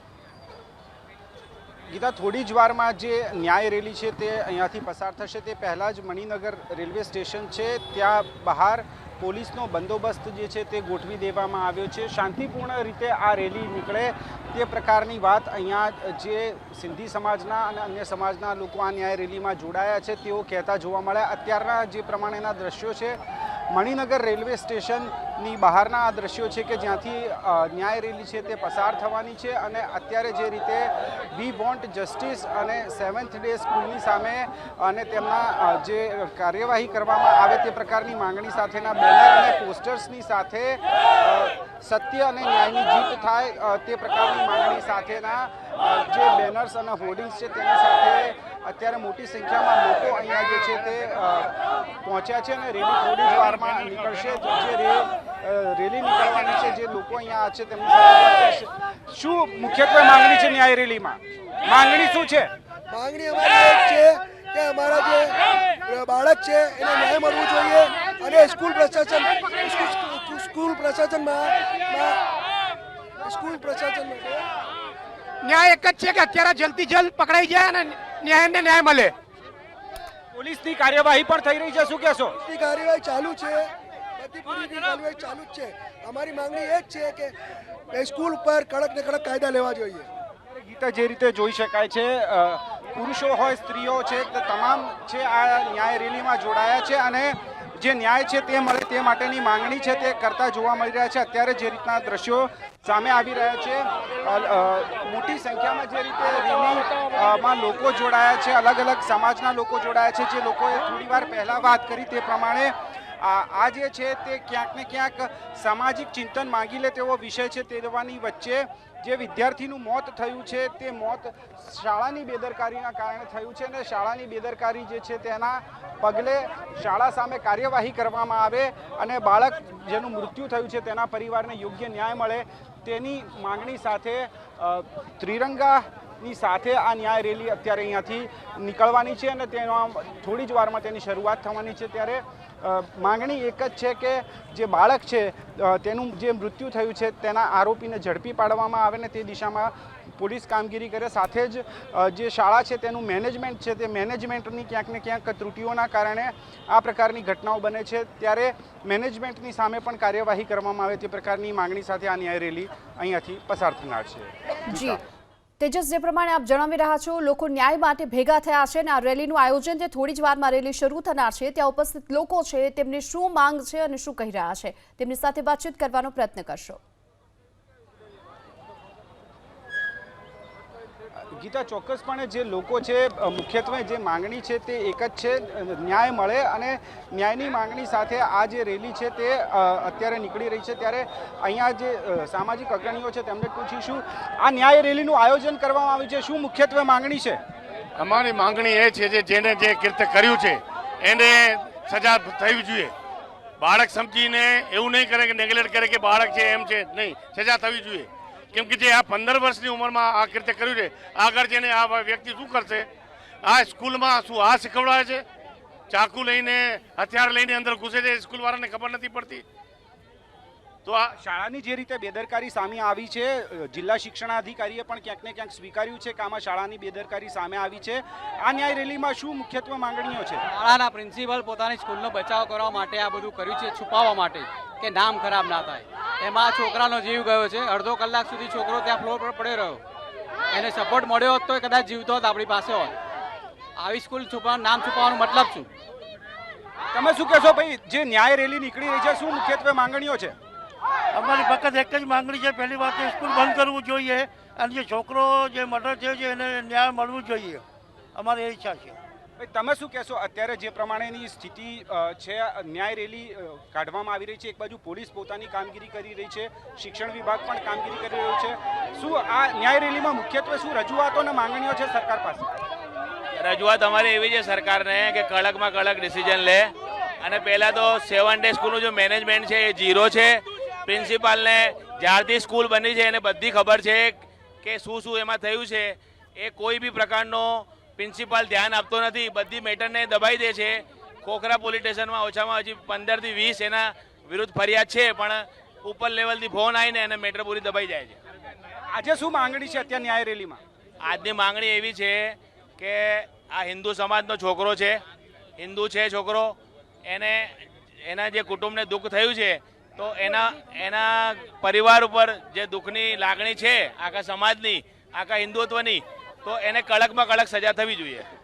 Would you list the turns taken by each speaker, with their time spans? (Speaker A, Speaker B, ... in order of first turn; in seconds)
Speaker A: 1.9-23.2, 23.7-62.5, 80.3-82.3, 90.6-165.0, 181.3-197.4, 221.2-230.4, 246.9-250.3, 259.4-272.5, 298.9-300.6
Speaker B: 62.9-72.2, 73.2-74.5, 82.4-87.3, 87.9-90.1
Speaker C: 75.5-79.1
Speaker D: 164.7-165.0, 165.6-176.8
Speaker E: 198.0-202.9, 203.6-212.9, 213.4-215.2, 215.9-219.4, 220.8-221.1
Speaker F: 230.5-239.8, 240.5-242.9, 243.8-245.7
Speaker G: 251.1-257.6, 258.1-258.9
Speaker H: 273.4-298.2, 301.0-305.0, 305.6-318.3